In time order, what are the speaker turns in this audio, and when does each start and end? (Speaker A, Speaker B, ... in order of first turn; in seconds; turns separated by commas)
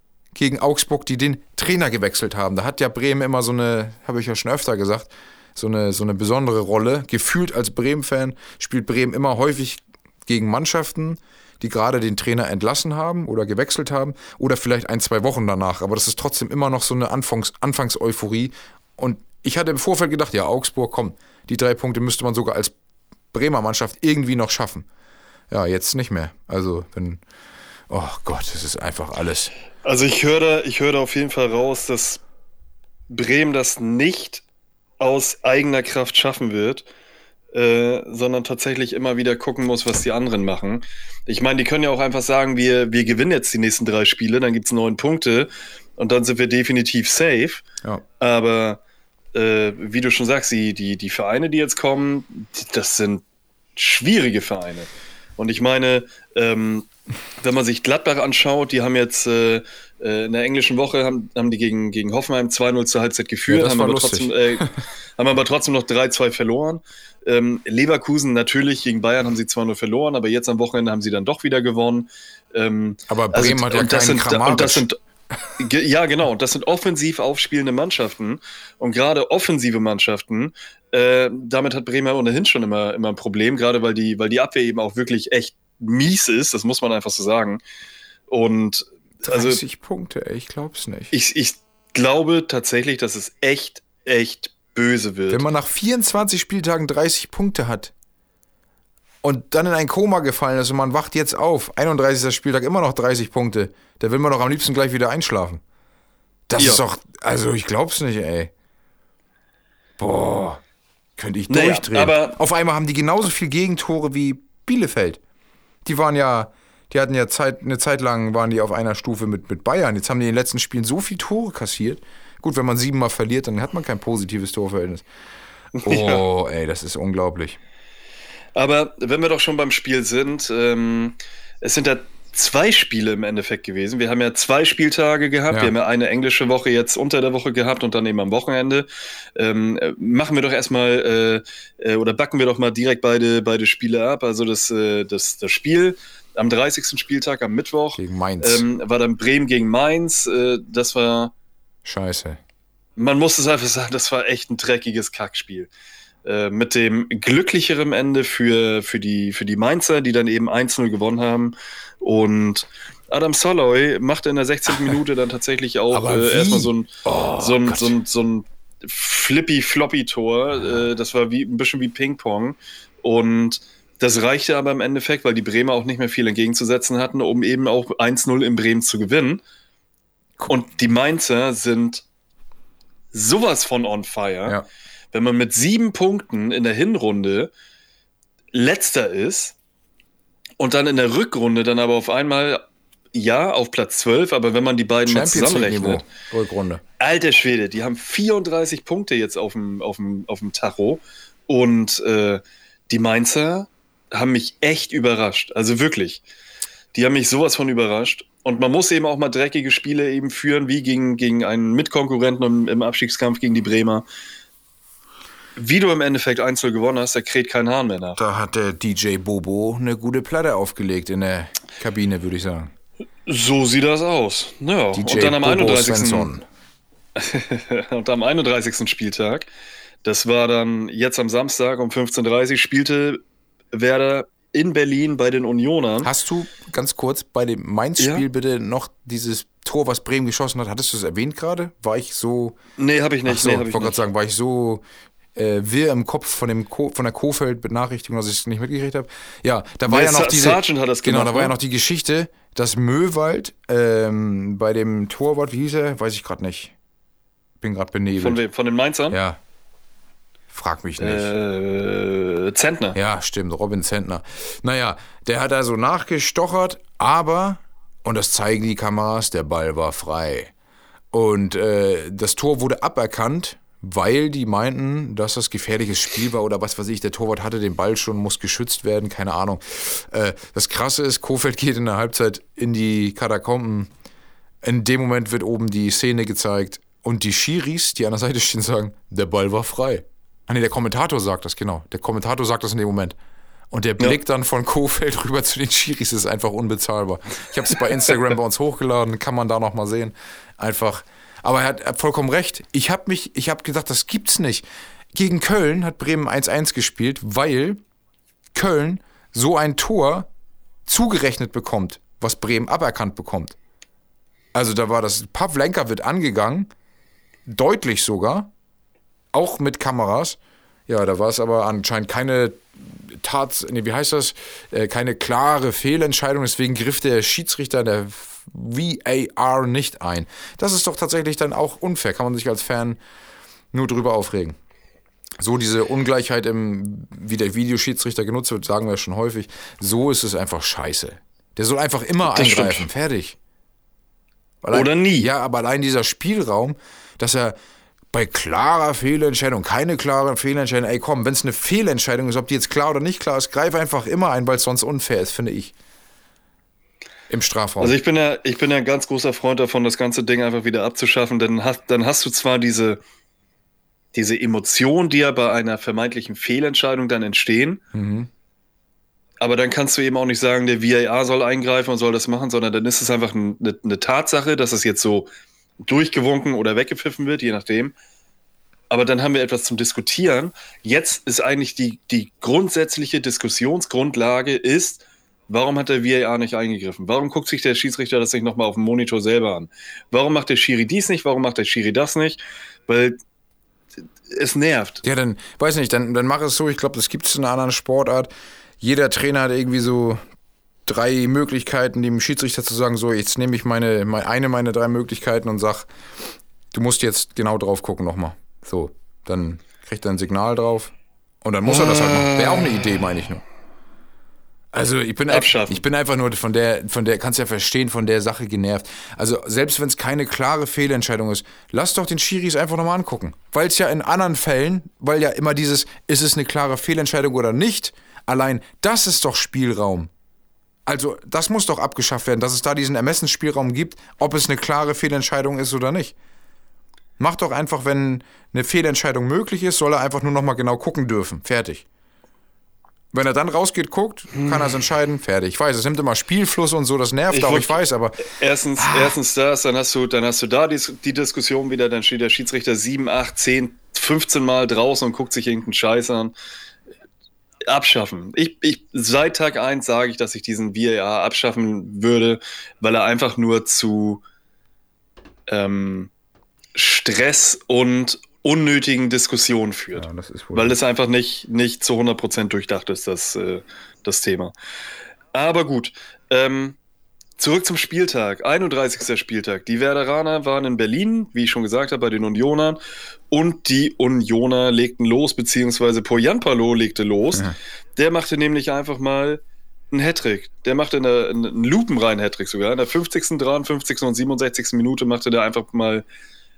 Speaker A: 0.3-22.7, Speaker A: 23.3-24.9, Speaker A: 25.5-27.2, Speaker A: 27.9-29.5, Speaker B: 29.8-32.2, Speaker B: 33.1-34.4, Speaker B: 35.0-36.9, Speaker B: 37.5-47.6, Speaker B: 48.2-48.8, Speaker B: 49.3-53.2, Speaker B: 53.8-56.9, Speaker B: 57.4-75.0, Speaker A: 63.5-64.7, Speaker A: 73.1-74.8, Speaker B: 75.6-87.6, Speaker B: 88.3-89.6, Speaker A: 89.2-91.1, Speaker B: 91.1-95.5, Speaker A: 95.3-97.9, Speaker A: 99.2-105.6, Speaker A: 106.5-108.5, Speaker A: 110.0-110.6, Speaker A: 111.2-115.2, Speaker B: 111.5-112.4, Speaker A: 115.8-125.0, Speaker B: 125.8-126.2, Speaker A: 125.8-127.6, Speaker B: 128.6-151.3, Speaker A: 147.9-148.6, Speaker A: 151.8-152.4, Speaker B: 153.0-155.7, Speaker B: 156.2-179.4, Speaker A: 165.9-168.0, Speaker B: 180.5-182.0, Speaker B: 183.1-184.6, Speaker B: 185.1-187.5, Speaker B: 188.5-189.6, Speaker B: 190.6-196.1, Speaker A: 195.1-196.8, Speaker B: 197.0-206.2, Speaker B: 206.9-214.0, Speaker B: 215.6-218.2, Speaker A: 218.2-222.7, Speaker B: 223.2-226.3, Speaker A: 224.9-226.4, Speaker B: 227.2-229.5, Speaker B: 230.0-233.2, Speaker B: 233.7-236.1, Speaker A: 236.0-242.6, Speaker B: 238.0-238.2, Speaker B: 242.8-244.0, Speaker A: 243.2-244.8, Speaker A: 245.3-256.7, Speaker B: 249.9-251.5, Speaker A: 257.6-258.4, Speaker B: 258.2-259.2, Speaker A: 259.1-259.4, Speaker A: 260.5-261.3, Speaker B: 261.0-263.0, Speaker A: 262.9-270.5, Speaker A: 271.1-283.9, Speaker A: 284.6-293.1, Speaker A: 293.7-307.8, Speaker A: 308.5-310.3, Speaker A: 310.9-313.6, Speaker A: 314.5-316.7, Speaker A: 317.5-318.5, Speaker A: 319.3-333.0, Speaker A: 333.7-334.6, Speaker A: 335.4-343.4, Speaker B: 342.3-342.9, Speaker A: 344.6-347.5, Speaker B: 344.7-345.3, Speaker A: 348.1-355.7, Speaker A: 357.3-357.9, Speaker B: 357.8-363.0, Speaker B: 364.1-367.8, Speaker A: 367.9-368.3, Speaker B: 369.4-375.3, Speaker B: 375.8-377.9, Speaker B: 378.9-393.2, Speaker B: 394.3-395.0, Speaker A: 395.0-400.2, Speaker A: 400.9-405.9, Speaker A: 406.7-413.4, Speaker B: 411.7-412.6, Speaker A: 414.7-430.1, Speaker B: 415.3-415.8, Speaker A: 430.9-436.1, Speaker A: 437.2-441.8, Speaker A: 443.1-448.2, Speaker B: 444.3-444.7, Speaker B: 447.3-456.3, Speaker A: 448.8-449.1, Speaker B: 457.7-464.2, Speaker B: 465.5-466.1, Speaker B: 466.7-474.5, Speaker A: 469.9-470.8, Speaker B: 475.3-476.8, Speaker B: 477.4-482.8, Speaker B: 483.3-496.0